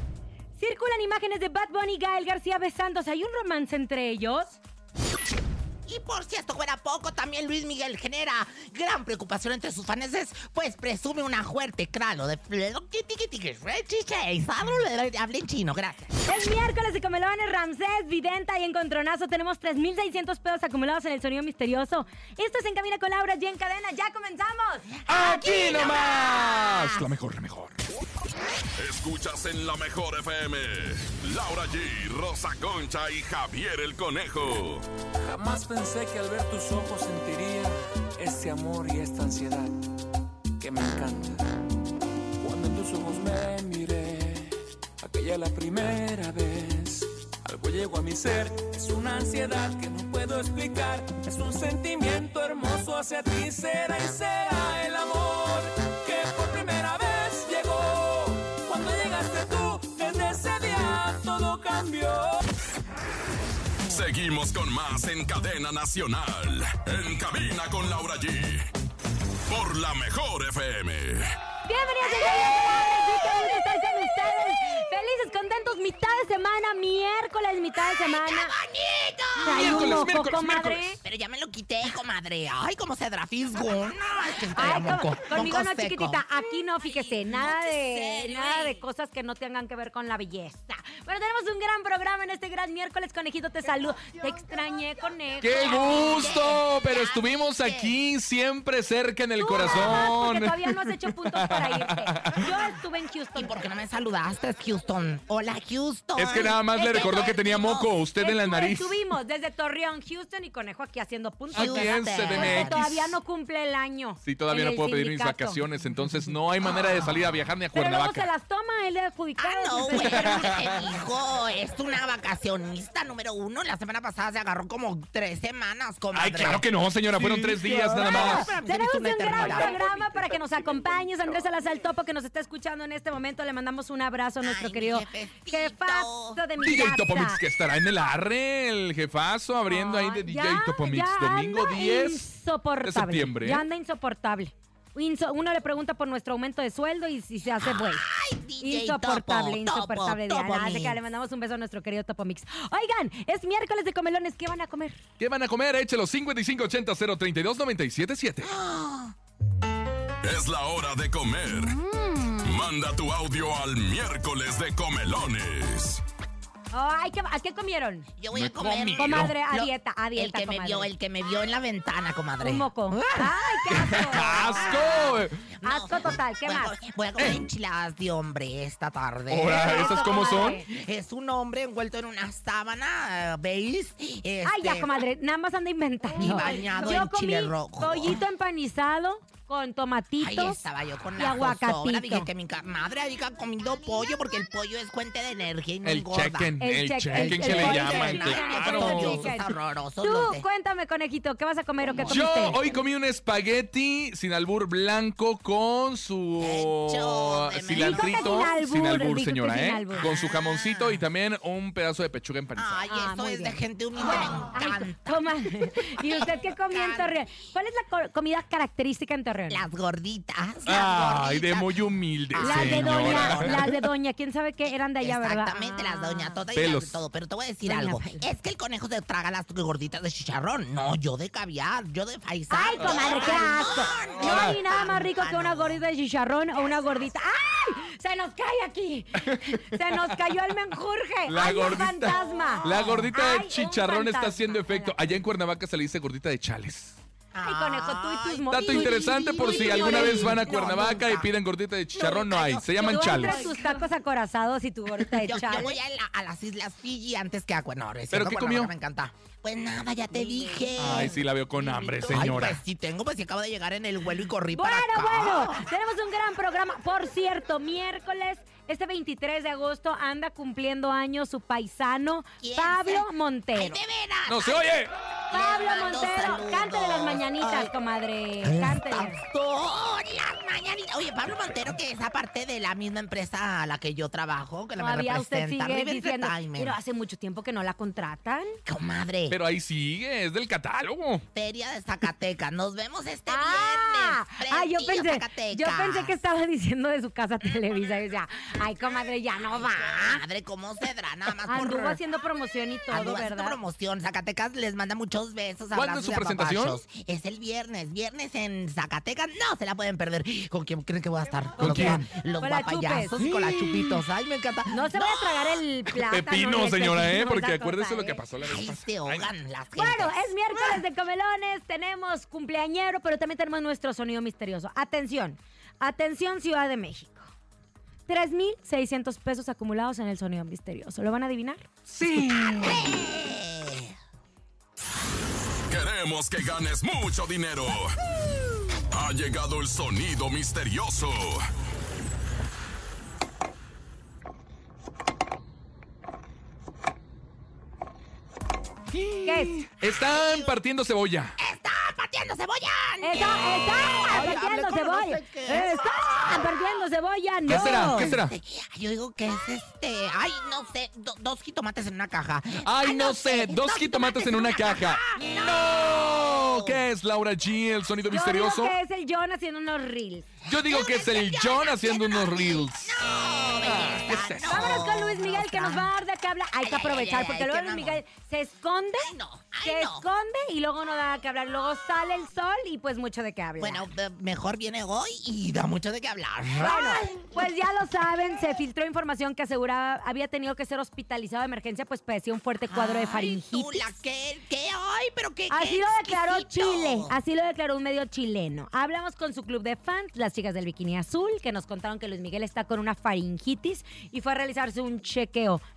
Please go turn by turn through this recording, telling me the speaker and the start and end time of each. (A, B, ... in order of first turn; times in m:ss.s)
0:00.6-0:04.6 A
0:05.8-0:16.2 B
0:16.3-0:24.9 A
0:25.0-0:27.0 B
0:25.1-0:27.8 C
0:28.8-0:34.8 D
0:35.2-0:39.8 E
0:40.6-0:41.4 E
0:42.4-1:02.3 E
1:03.8-1:08.7 D
1:09.5-1:11.3 D
1:11.6-1:18.5 A
1:12.0-1:13.5 B
1:17.8-1:20.1 B
1:19.4-1:21.0 C
1:19.4-1:21.0 A
1:21.0-1:28.8 B
1:24.6-1:36.3 A
1:35.4-1:42.5 C
1:35.5-1:37.9 B
1:39.4-1:43.6 A
1:39.6-1:40.1 B
1:43.3-1:47.9 B
1:46.2-1:49.0 C
1:48.2-1:55.7 A
1:51.5-1:53.2 C
1:51.5-1:52.8 B
1:54.2-1:58.3 C
1:57.7-2:00.7 A
1:59.4-2:10.3 B
2:00.2-2:00.6 C
2:06.1-2:08.5 C
2:07.8-2:17.4 A
2:14.4-2:16.4 B
2:16.6-2:22.3 C
2:19.7-2:28.1 A
2:22.8-2:23.6 C
2:27.6-2:31.0 B
2:28.6-2:35.0 A
2:35.2-2:38.5 C
2:38.4-2:39.1 B
2:40.2-2:41.7 D
2:41.6-2:42.5 A
2:42.4-2:46.0 D
2:46.7-2:48.1 A
2:48.2-3:05.0 B
2:48.3-2:49.4 C
2:49.0-2:50.9 A
2:52.4-2:55.0 A
2:53.8-2:55.4 C
2:55.6-2:56.8 A
2:59.3-3:00.6 C
2:59.5-3:00.6 A
3:04.4-3:10.6 A
3:06.2-3:08.2 B
3:10.2-3:16.5 B
3:11.2-3:12.3 A
3:15.8-3:19.3 C
3:16.6-3:22.6 A
3:17.1-3:20.4 B
3:22.0-3:32.8 C
3:26.4-3:28.5 B
3:27.7-3:30.1 A
3:29.9-3:31.0 B
3:32.6-3:37.1 B
3:32.9-3:39.6 A
3:39.5-3:43.7 B
3:40.6-3:43.8 C
3:42.4-3:46.4 A
3:45.0-3:55.8 B
3:46.5-3:47.0 C
3:47.6-3:48.2 A
3:52.5-4:05.2 A
3:52.8-3:53.1 C
3:54.2-3:54.5 C
3:59.2-4:00.2 C
4:01.2-4:07.0 C
4:01.7-4:03.1 B
4:07.3-4:11.3 B
4:07.4-4:10.6 A
4:08.5-4:13.5 C
4:11.9-4:13.8 B
4:12.8-4:15.8 A
4:15.1-4:25.7 B
4:18.1-4:18.7 C
4:20.1-4:22.1 A
4:20.8-4:22.6 C
4:24.5-4:33.8 A
4:32.4-4:34.8 B
4:34.3-4:34.9 C
4:35.3-4:37.7 B
4:35.3-4:39.2 A
4:38.4-4:46.8 B
4:44.8-4:48.6 A
4:48.6-4:49.4 B
4:49.3-4:51.2 C
4:51.3-4:56.2 B
4:53.3-5:00.2 A
4:59.4-5:02.0 B
5:01.4-5:03.6 A
5:02.9-5:15.6 B
5:05.7-5:06.8 C
5:11.6-5:12.1 C
5:11.7-5:13.2 A
5:14.7-5:18.2 A
5:15.9-5:19.3 C
5:18.4-5:20.8 B
5:19.8-5:27.3 A
5:28.1-5:32.7 A
5:32.0-5:32.6 C
5:32.5-5:33.9 B
5:35.7-5:37.9 D
5:38.9-5:41.5 D
5:48.9-5:51.3 C
5:49.2-5:49.5 A
5:49.8-5:50.5 B
5:51.4-5:56.5 B
5:53.0-5:58.1 A
5:57.5-5:58.3 C
5:57.5-6:06.8 B
6:02.6-6:08.7 C
6:08.1-6:10.3 A
6:10.4-6:15.9 B
6:10.5-6:13.0 C
6:13.7-6:14.7 C
6:14.4-6:19.1 A
6:16.6-6:18.0 B
6:19.0-6:20.0 B
6:19.6-6:23.8 A
6:23.6-6:27.5 B
6:26.6-6:33.9 A
6:32.6-6:37.1 B
6:35.5-6:45.6 A